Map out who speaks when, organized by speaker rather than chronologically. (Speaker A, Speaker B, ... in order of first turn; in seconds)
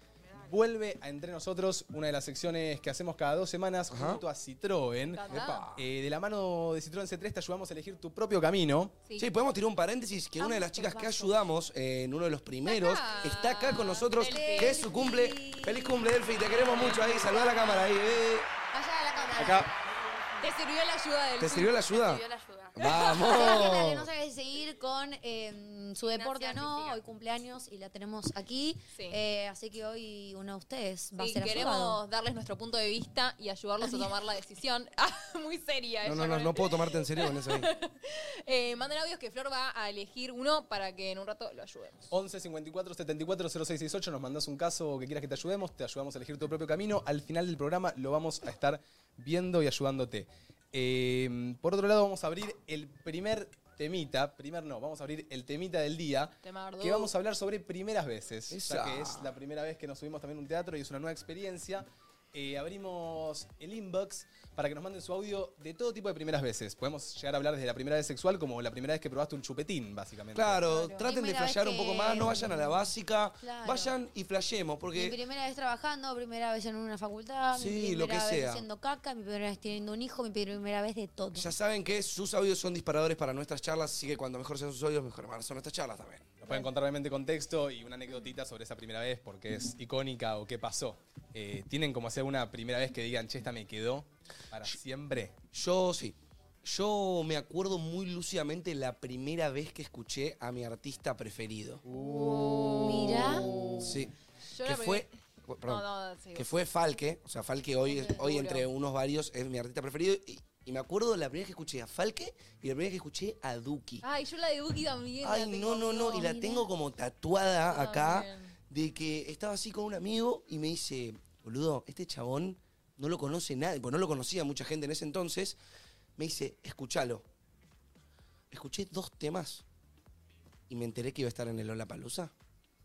Speaker A: 0.4-8.9, 42.1-70.6, 86.4-95.3
Speaker B: 3.9-4.2, 5.3-5.8, 9.2-18.5, 19.4-19.7, 21.4-22.2, 22.7-24.1, 36.0-37.7, 58.5-59.3, 70.3-75.2, 77.5-78.7, 81.3-86.3, 95.5-101.8, 103.8-114.0, 115.2-125.5, 126.2-127.2, 128.5-129.6, 130.7-132.3
Speaker C: 5.1-5.7, 12.6-14.8, 16.7-17.0, 20.4-21.8, 22.8-23.6, 28.9-29.2, 31.2-42.1, 56.4-57.1, 70.7-71.0, 101.9-103.9, 104.5-105.1, 105.7-106.5, 107.9-108.7, 114.0-116.2, 117.7-118.5
Speaker D: 10.4-11.4, 14.3-17.9, 18.7-19.7, 23.2-32.0, 33.8-34.1, 71.0-72.8, 73.4-73.9, 74.9-81.5, 102.7-103.5, 116.0-116.7
Speaker E: 21.9-22.9, 26.1-27.0